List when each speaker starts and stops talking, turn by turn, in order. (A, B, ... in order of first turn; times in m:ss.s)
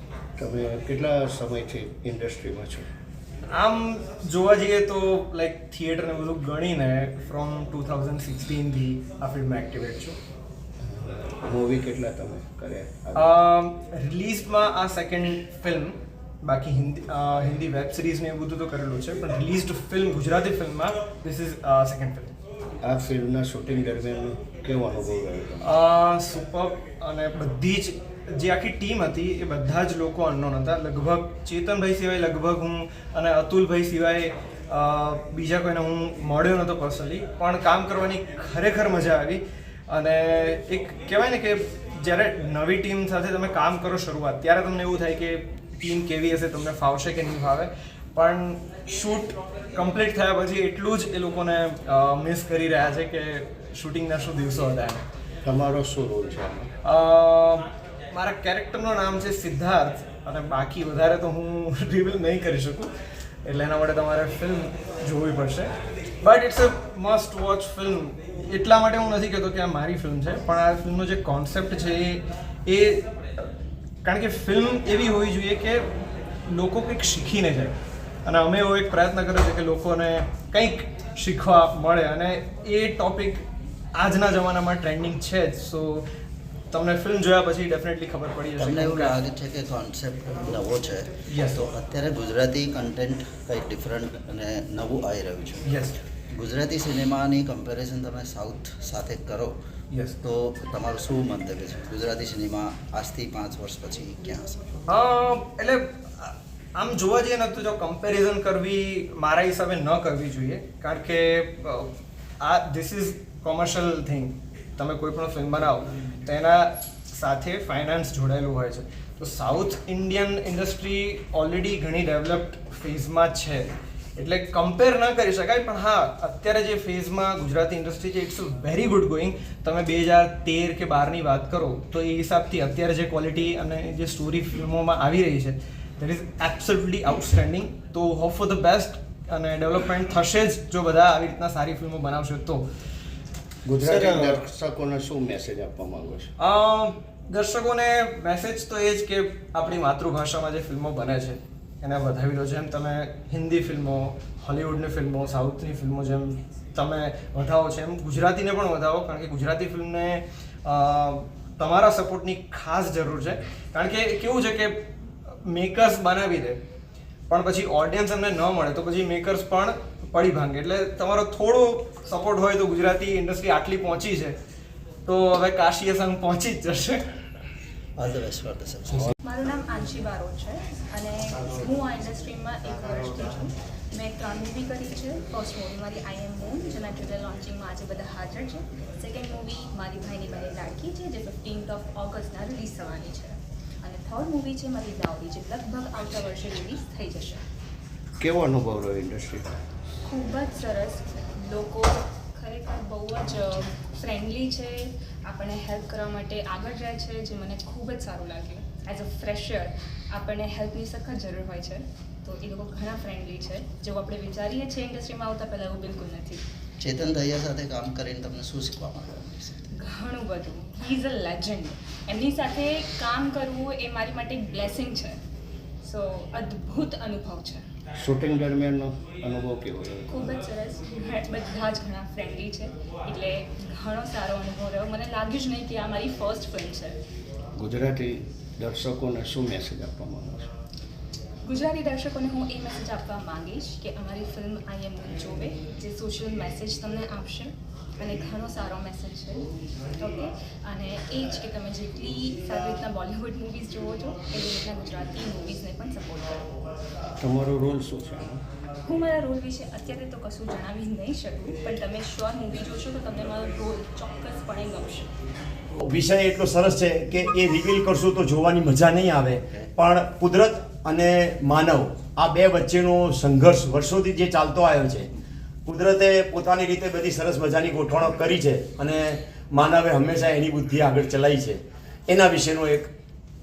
0:00.4-0:02.9 A
0:03.5-0:10.2 B
0:10.8-0:13.4 A
0:13.2-0:22.3 B
0:22.8-0:25.7 A
0:25.6-0:55.0 B
0:55.4-0:56.7 A
0:56.8-1:02.9 B
1:03.5-1:13.5 B
1:14.0-1:15.9 B
1:16.5-1:23.4 B
1:24.0-1:26.1 B
1:26.7-1:29.2 B
1:28.6-1:35.6 C
1:31.3-1:31.7 B
1:35.6-1:36.0 B
1:36.3-1:39.6 C
1:39.9-1:40.2 B
1:40.2-1:44.6 C
1:44.9-2:22.7 B
2:23.6-2:26.3 A
2:23.8-2:24.4 B
2:26.4-2:44.9 B
2:45.4-2:46.6 B
2:47.3-2:54.4 B
2:55.1-2:57.0 B
2:58.0-2:59.1 C
2:59.2-3:17.4 D
3:18.2-3:19.6 A
3:20.0-3:36.4 D
3:36.8-3:39.7 C
3:39.7-3:45.2 D
3:45.8-3:47.6 D
3:48.0-3:50.2 A
3:50.1-3:57.0 D
3:57.6-4:00.5 A
4:01.4-4:16.5 D
4:17.2-4:18.4 A
4:18.8-4:25.1 D
4:25.8-4:35.1 E
4:35.6-4:42.9 E